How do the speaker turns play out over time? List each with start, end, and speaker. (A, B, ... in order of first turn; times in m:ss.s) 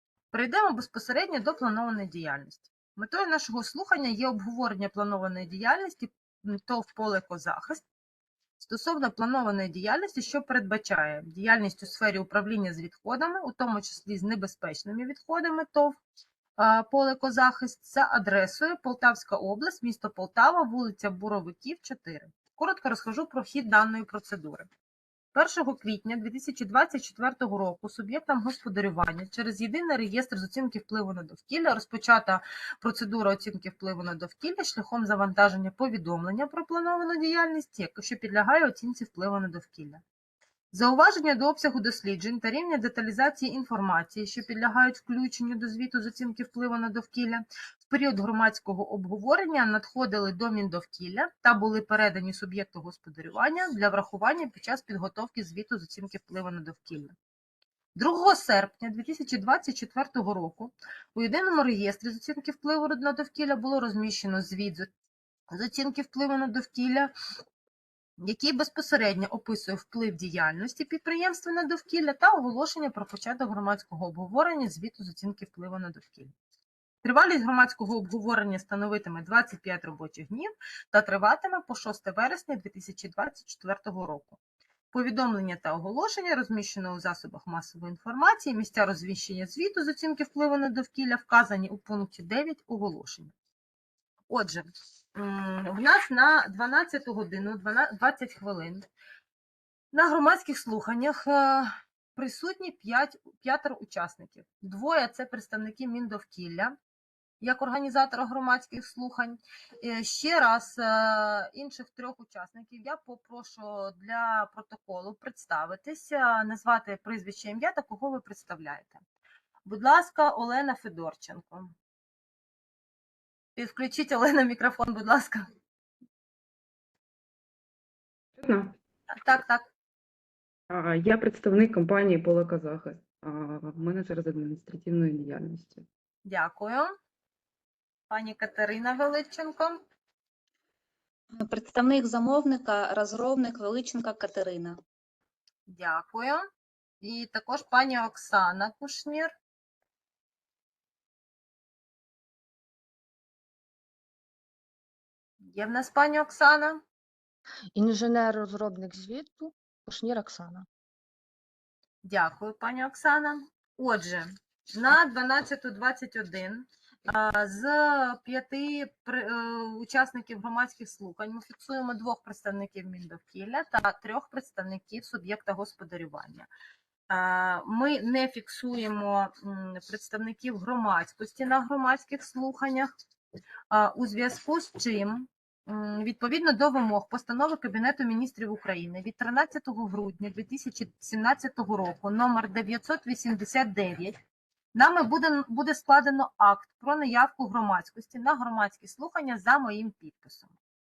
0:00.3-0:07.8 A
0:08.6-0:16.0 A
0:16.6-0:24.7 A
0:25.3-0:40.0 A
0:40.7-0:57.1 A
0:58.0-1:04.9 A
1:05.5-1:07.1 A
1:08.2-1:16.3 A
1:17.0-1:24.4 A
1:24.9-1:33.3 A
1:34.3-1:38.8 A
1:39.9-1:46.8 A
1:47.4-1:59.0 A
1:59.6-2:01.7 A
2:03.6-2:05.4 A
2:08.4-2:08.7 B
2:09.2-2:09.7 A
2:10.7-2:15.8 B
2:16.2-2:16.9 A
2:18.1-2:19.8 A
2:21.4-2:24.8 C
2:25.7-2:26.4 A
2:27.0-2:29.3 A
2:35.4-2:36.8 A
2:37.7-2:40.6 D
2:42.0-2:56.5 A
2:57.1-3:02.9 A
3:03.7-3:14.2 A
3:14.7-3:20.6 A